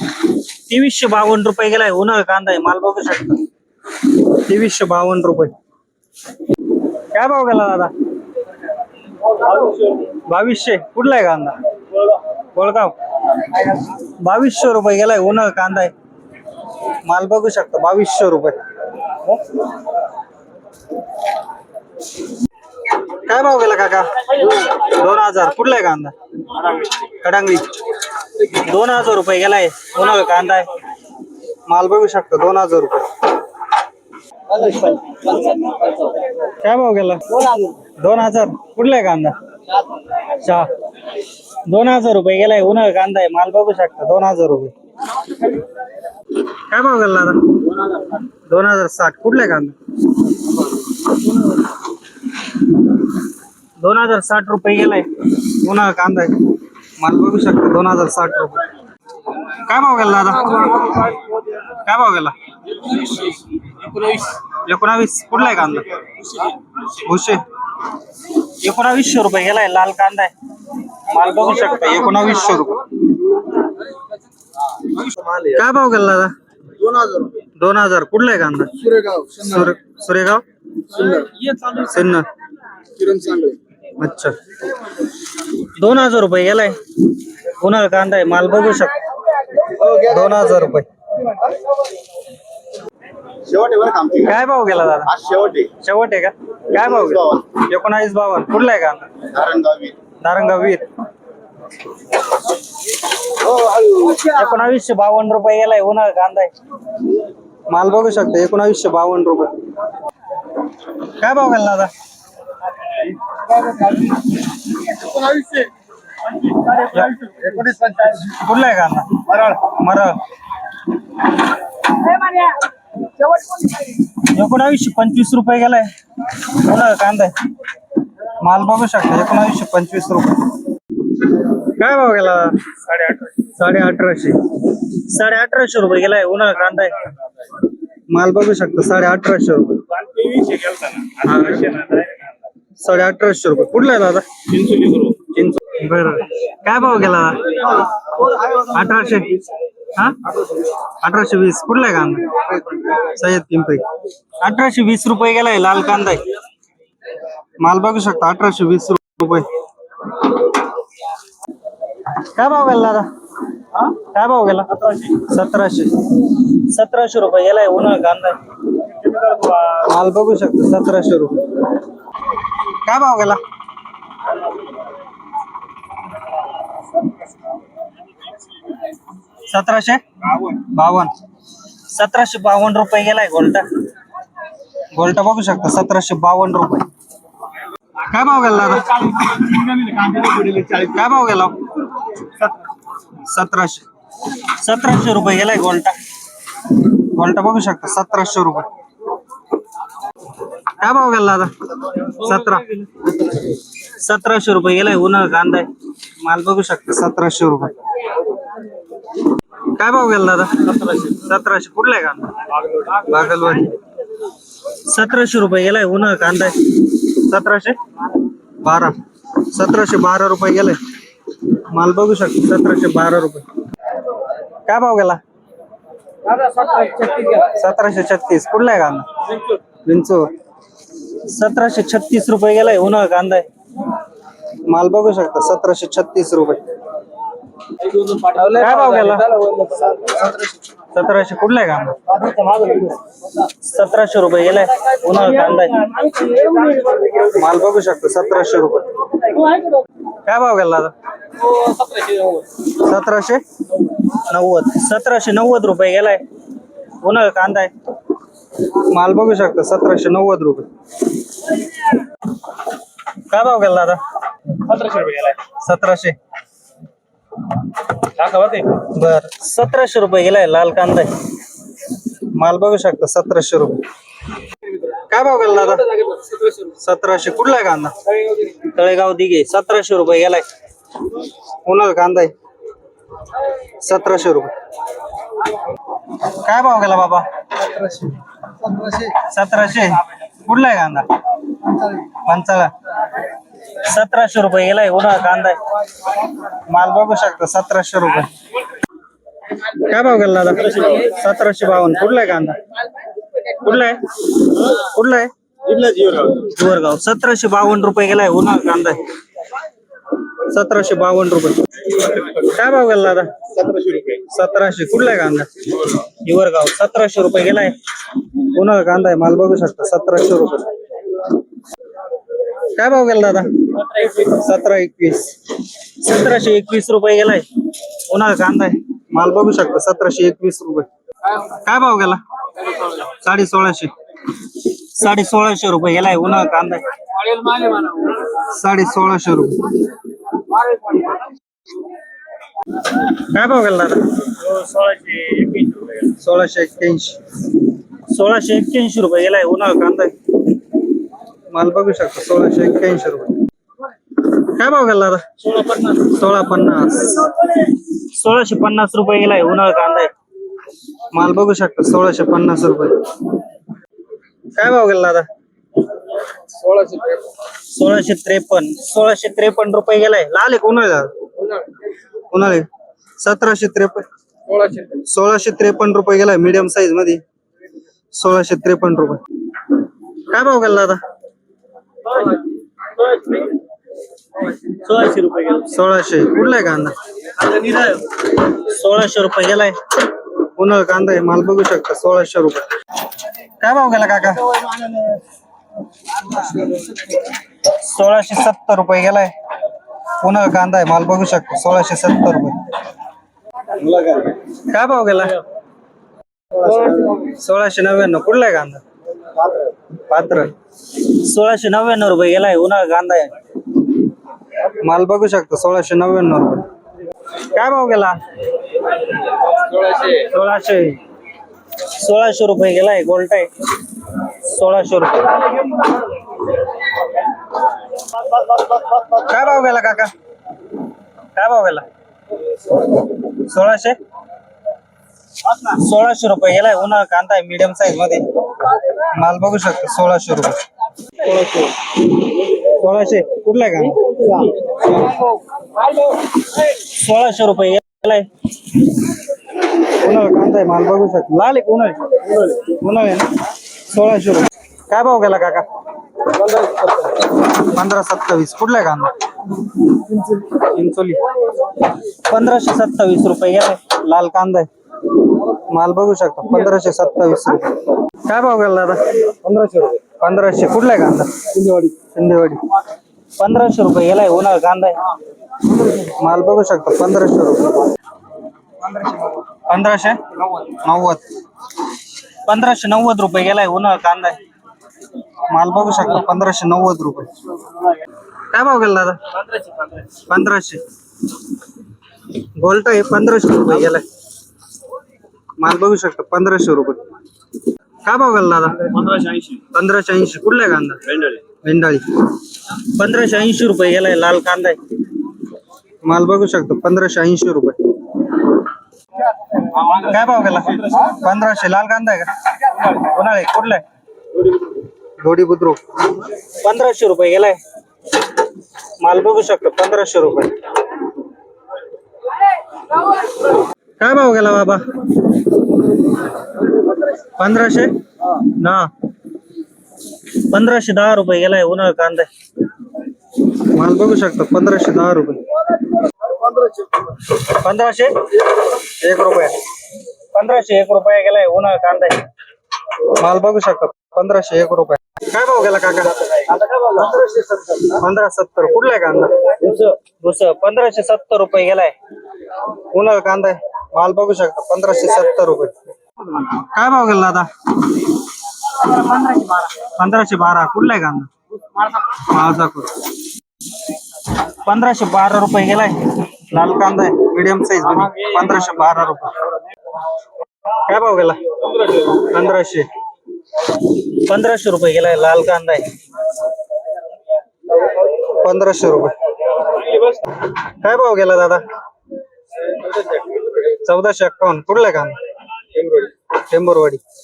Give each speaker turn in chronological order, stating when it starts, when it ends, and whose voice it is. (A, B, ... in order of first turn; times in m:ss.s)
0:00.3-0:03.4 A
0:04.0-0:05.5 A
0:07.1-0:07.9 A
0:10.3-0:11.6 A
0:12.5-0:13.0 A
0:13.6-0:15.9 A
0:17.0-0:18.6 A
0:23.1-0:27.8 A
0:28.4-0:30.7 A
0:31.7-0:33.2 A
0:34.5-0:36.1 B
0:36.4-0:39.4 A
0:37.4-0:37.7 B
0:40.3-0:40.8 A
0:41.6-0:44.7 A
0:46.5-0:47.6 A
0:48.5-0:49.7 A
0:53.8-0:58.6 A
0:59.5-1:01.1 A
1:01.7-1:02.3 A
1:03.0-1:03.3 B
1:04.5-1:06.0 A
1:06.8-1:07.4 A
1:08.4-1:10.3 A
1:11.0-1:12.9 A
1:15.4-1:16.3 A
1:16.8-1:17.3 B
1:17.6-1:20.4 A
1:18.8-1:19.5 B
1:20.9-1:21.8 B
1:21.6-1:22.3 A
1:23.0-1:23.6 B
1:24.0-1:24.4 A
1:25.6-1:26.8 A
1:27.4-1:29.0 A
1:29.7-1:30.0 B
1:29.8-1:30.9 A
1:33.4-1:34.3 B
1:34.2-1:39.2 A
1:35.2-1:35.7 B
1:39.3-1:40.0 B
1:40.2-1:40.9 A
1:43.5-1:44.2 B
1:43.9-1:46.5 A
1:47.7-1:49.7 A
1:51.0-1:51.9 A
1:53.6-1:54.0 B
1:55.1-1:55.7 B
1:56.8-1:57.3 A
1:57.2-1:58.2 B
1:58.1-2:00.2 A
2:03.9-2:07.4 A
2:08.4-2:10.5 A
2:11.4-2:17.1 A
2:18.1-2:20.0 A
2:20.1-2:21.9 B
2:21.1-2:21.9 A
2:22.8-2:33.9 A
2:34.4-2:36.3 A
2:37.6-2:39.5 A
2:42.1-2:43.1 A
2:43.7-2:48.4 A
2:49.6-2:51.5 A
2:52.8-2:53.4 A
2:59.5-3:01.1 A
3:01.9-3:03.7 A
3:04.9-3:06.9 A
3:08.0-3:09.5 A
3:09.6-3:10.8 B
3:10.4-3:11.6 A
3:13.2-3:13.8 A
3:14.4-3:16.0 A
3:16.7-3:18.7 A
3:20.8-3:22.9 A
3:23.8-3:25.7 A
3:26.2-3:27.8 A
3:29.7-3:33.8 A
3:34.7-3:37.8 A
3:38.6-3:40.8 A
3:41.4-3:43.4 A
3:44.7-3:45.2 A
3:46.3-3:47.5 B
3:47.3-3:49.2 A
3:49.8-3:50.3 A
3:51.1-3:53.5 A
3:54.6-3:56.7 A
3:57.8-4:00.4 B
3:58.4-3:59.4 A
4:00.9-4:02.1 A
4:02.1-4:03.0 B
4:03.4-4:06.0 A
4:06.0-4:07.1 B
4:07.2-4:09.0 A
4:10.2-4:10.9 A
4:11.4-4:12.4 B
4:12.6-4:13.4 A
4:14.1-4:16.2 A
4:17.0-4:17.7 A
4:18.8-4:20.7 A
4:23.3-4:24.0 A
4:24.7-4:25.3 B
4:25.1-4:26.2 A
4:28.2-4:28.7 B
4:28.5-4:31.2 A
4:32.2-4:33.8 A
4:34.8-4:40.4 A
4:41.6-4:42.3 A
4:43.8-4:44.5 A
4:46.2-4:47.3 A
4:47.7-4:48.1 B
4:48.6-4:49.1 B
4:48.9-4:51.1 A
4:51.8-4:52.7 A
4:53.7-4:55.6 A
4:56.7-4:58.3 A
4:59.6-5:02.6 A
5:03.4-5:05.3 A
5:05.7-5:06.3 B
5:06.2-5:09.0 A
5:10.4-5:13.5 A
5:13.6-5:14.1 B
5:14.0-5:17.8 A
5:18.4-5:20.7 A
5:22.7-5:27.4 A
5:28.1-5:32.2 A
5:32.9-5:33.9 A
5:34.6-5:36.8 A
5:37.2-5:38.2 B
5:38.3-5:39.7 A
5:43.0-5:44.0 A
5:44.5-5:45.9 B
5:46.0-5:47.2 A
5:48.0-5:50.1 A
5:51.5-5:53.3 A
5:54.2-6:00.1 A
6:01.1-6:03.4 A
6:04.5-6:05.2 A
6:06.6-6:07.2 B
6:07.5-6:11.1 A
6:12.3-6:12.7 A
6:13.2-6:14.0 A
6:14.5-6:14.9 B
6:14.9-6:17.2 A
6:18.1-6:19.7 A
6:20.3-6:21.0 A
6:23.0-6:23.4 B
6:24.6-6:25.6 B
6:24.9-6:27.0 A
6:27.4-6:27.9 B
6:27.5-6:32.7 A
6:33.6-6:34.7 A
6:37.6-6:39.3 A
6:40.2-6:42.6 A
6:43.8-6:44.3 B
6:44.5-6:45.4 A
6:46.6-6:47.1 B
6:47.1-6:48.8 A
6:50.1-6:53.3 A
6:54.6-6:56.7 A
6:57.3-6:58.2 A
6:59.7-7:01.0 A
7:01.8-7:03.5 A
7:04.2-7:05.5 A
7:09.1-7:10.1 A
7:11.3-7:11.8 A
7:12.9-7:14.0 A
7:15.4-7:18.3 A
7:19.0-7:20.6 A
7:21.2-7:21.7 A
7:22.4-7:24.4 A
7:26.4-7:29.0 A
7:29.6-7:35.6 A
7:36.4-7:36.9 B
7:37.4-7:39.1 A
7:40.3-7:41.2 A
7:42.1-7:44.7 A
7:45.5-7:49.1 A
7:49.4-7:50.0 B
7:50.1-7:52.6 A
7:51.6-7:51.9 B
7:53.4-7:55.0 A
7:55.8-7:57.8 A
7:59.7-8:01.2 A
8:02.4-8:04.4 A
8:05.5-8:07.3 A
8:08.5-8:09.3 A
8:10.1-8:10.8 A
8:12.3-8:14.0 A
8:15.6-8:17.0 A
8:18.0-8:24.8 A
8:19.1-8:19.5 B
8:26.0-8:28.3 A
8:29.7-8:33.8 A
8:35.2-8:37.6 A
8:39.0-8:40.6 A
8:44.0-8:44.8 A
8:47.4-8:48.9 A
8:50.2-8:52.3 A
8:53.5-8:55.5 A
8:57.2-8:59.6 A
9:00.3-9:02.3 A
9:03.0-9:07.1 A
9:06.8-9:07.6 B
9:07.7-9:11.9 A
9:12.9-9:15.7 A
9:16.3-9:18.1 A
9:18.7-9:23.1 A
9:24.4-9:29.4 A
9:30.7-9:32.9 A
9:33.8-9:35.9 A
9:38.2-9:39.2 A
9:40.4-9:41.6 A
9:43.5-9:45.2 A
9:45.8-9:47.0 A